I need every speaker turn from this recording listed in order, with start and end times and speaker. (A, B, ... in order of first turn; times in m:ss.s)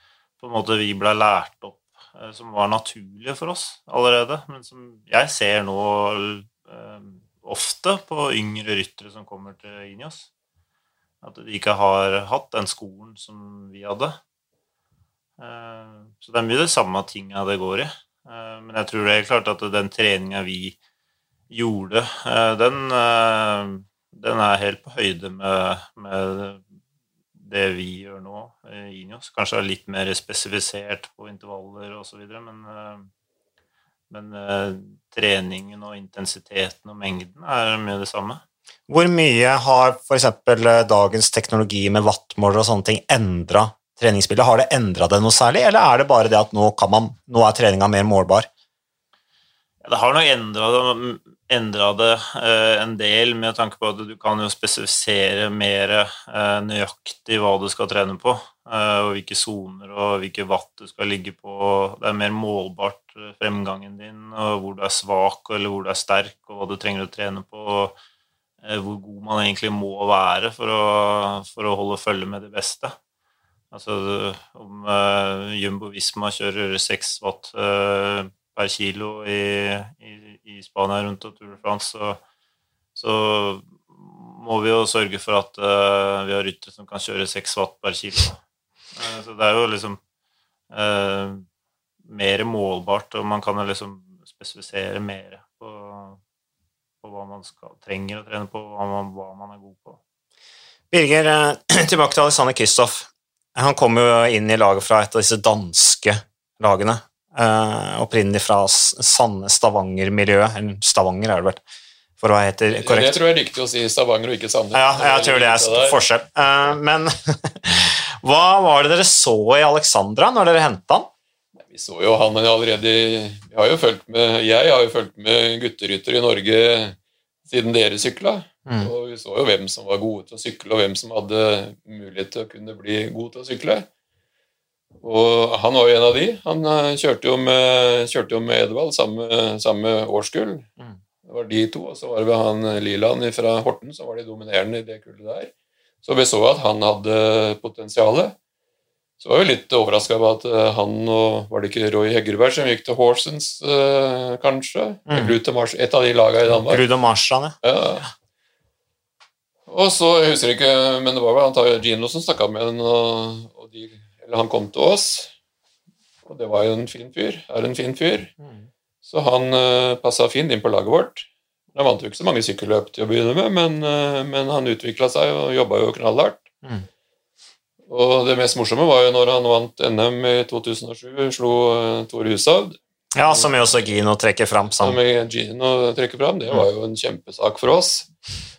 0:00.4-0:10.3 A
0:11.2-0:14.2 A
0:15.4-0:20.8 A
0:21.5-0:26.6 A
0:27.4-0:33.1 A
0:34.1-0:38.4 A
0:38.9-0:48.5 B
0:49.8-1:07.9 A
1:08.6-1:12.9 A
1:13.7-1:22.2 A
1:23.0-1:28.4 A
1:28.9-1:30.0 A
1:30.7-1:31.4 A
1:32.1-1:36.2 A
1:37.0-1:40.0 A
1:40.9-1:51.6 B
1:52.2-1:53.2 B
1:52.8-1:56.0 C
1:54.7-2:01.1 B
2:01.6-2:13.9 C
2:15.0-2:20.7 C
2:21.2-2:25.5 C
2:26.0-2:28.3 C
2:29.2-2:36.8 C
2:35.1-2:35.3 B
2:36.5-2:37.5 B
2:37.6-2:38.1 C
2:39.7-2:45.3 C
2:46.2-2:48.3 C
2:49.0-2:56.4 C
2:57.9-3:03.5 C
3:03.1-3:05.0 B
3:04.8-3:08.1 C